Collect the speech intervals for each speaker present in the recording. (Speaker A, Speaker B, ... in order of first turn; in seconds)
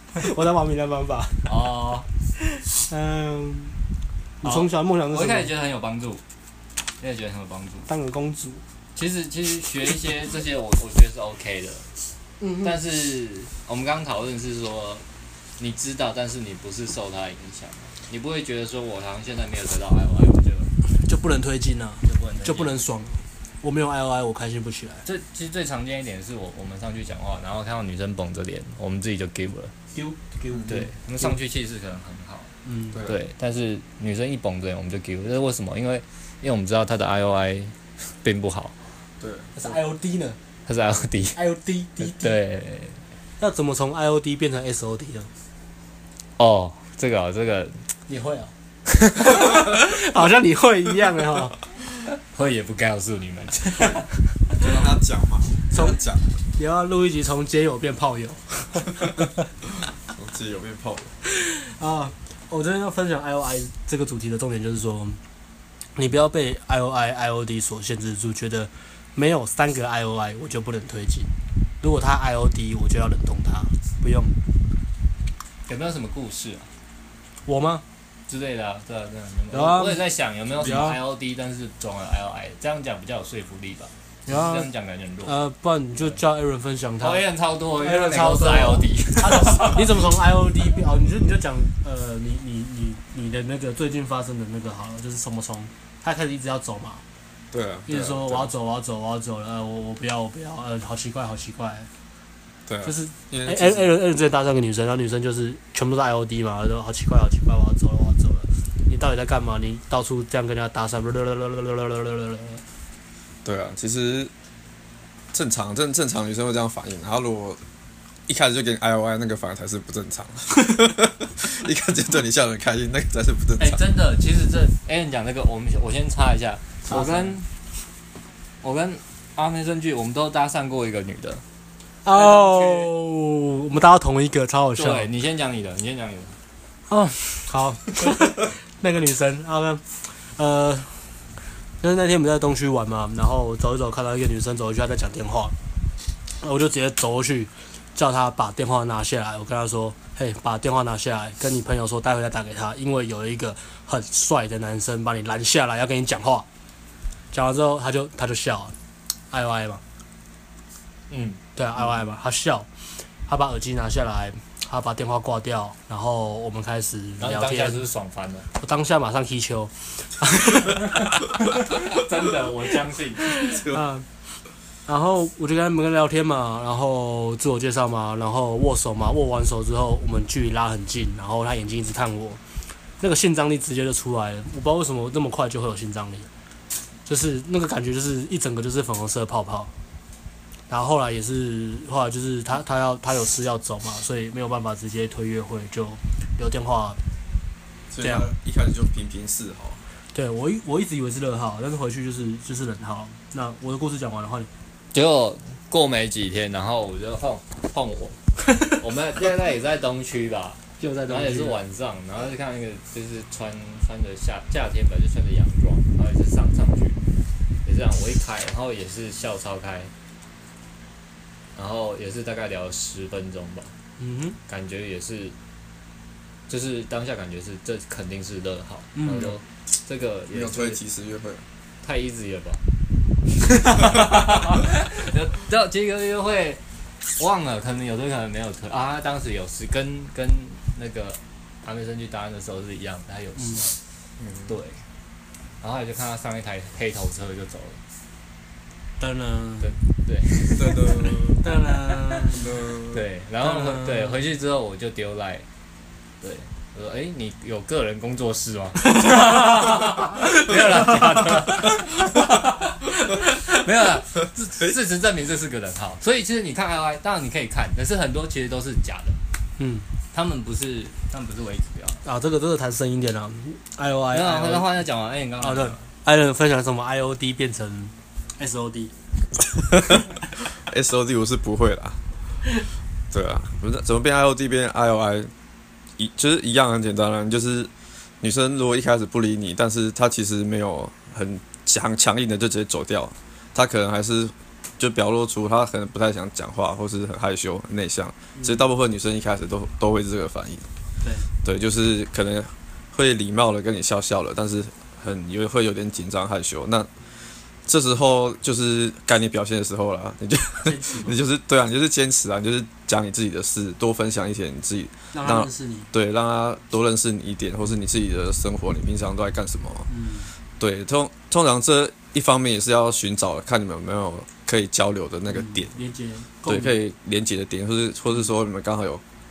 Speaker A: 0.1-1.5, 2.4-3.8, 4.4-5.5, 7.9-8.6, 12.4-12.7, 21.0-25.0, 29.9-31.3, 32.6-33.0, 39.5-40.4, 41.3-42.4, 43.4-45.3, 48.1-48.5, 49.0-51.5, 55.7-56.0, 56.6-59.3, 61.2-65.2, 66.0-74.4, 77.5-77.8, 79.5-80.1, 80.6-81.0, 84.3-84.7, 85.2-87.2, 87.8-97.0, 97.9-101.9, 102.8-112.6, 126.8-127.4, 132.0-135.1, 136.9-141.1, 141.8-145.5, 146.4-156.5, 157.3-158.7, 159.3-159.8, 161.5-162.7, 163.2-167.8, 168.6-171.1, 173.4-174.1, 174.8-182.4, 183.0-186.3, 187.1-189.7, 190.7-197.0, 198.0-198.3, 200.1-204.5, 210.8-211.6, 224.0-224.4, 228.9-229.3, 243.4-243.7, 249.0-249.8, 251.4-252.6, 253.4-254.2, 258.9-261.0, 269.6-269.9, 272.0-274.7, 275.4-278.9, 298.4-298.6, 301.0-301.3, 310.6-311.2, 315.1-315.9, 319.9-320.3, 325.3-326.8
Speaker B: 1.4-2.1, 4.4-6.2, 7.0-7.9, 8.9-11.9, 12.6-15.0, 15.6-20.7, 22.0-22.8, 25.0-29.7, 30.7-38.7, 40.7-41.4, 42.0-43.0, 46.4-47.8, 52.3-54.1, 75.7-76.7, 78.3-85.3, 87.0-90.0, 123.6-127.5, 128.6-131.4, 132.1-132.9, 134.8-136.3, 161.1-161.4, 167.2-168.5, 170.8-173.5, 204.9-217.0, 217.6-219.9, 221.5-223.7, 224.5-225.3, 226.5-230.8, 231.8-232.6, 233.4-236.6, 237.2-243.7, 244.5-244.8, 245.6-247.8, 249.6-251.2, 252.9-255.5, 256.2-269.2, 270.1-272.0, 274.1-275.8
Speaker C: 30.5-30.8, 39.2-39.8, 54.5-56.4, 60.1-61.1, 97.5-98.5, 102.7-103.9, 113.4-114.3, 115.3-117.6, 118.3-123.8, 173.4-173.8, 197.9-199.8, 230.3-231.4, 244.2-244.5, 250.5-251.4, 252.3-253.0, 279.8-282.0, 283.1-285.3, 286.0-300.7, 301.4-306.9, 307.6-319.9, 320.6-325.7, 326.4-329.0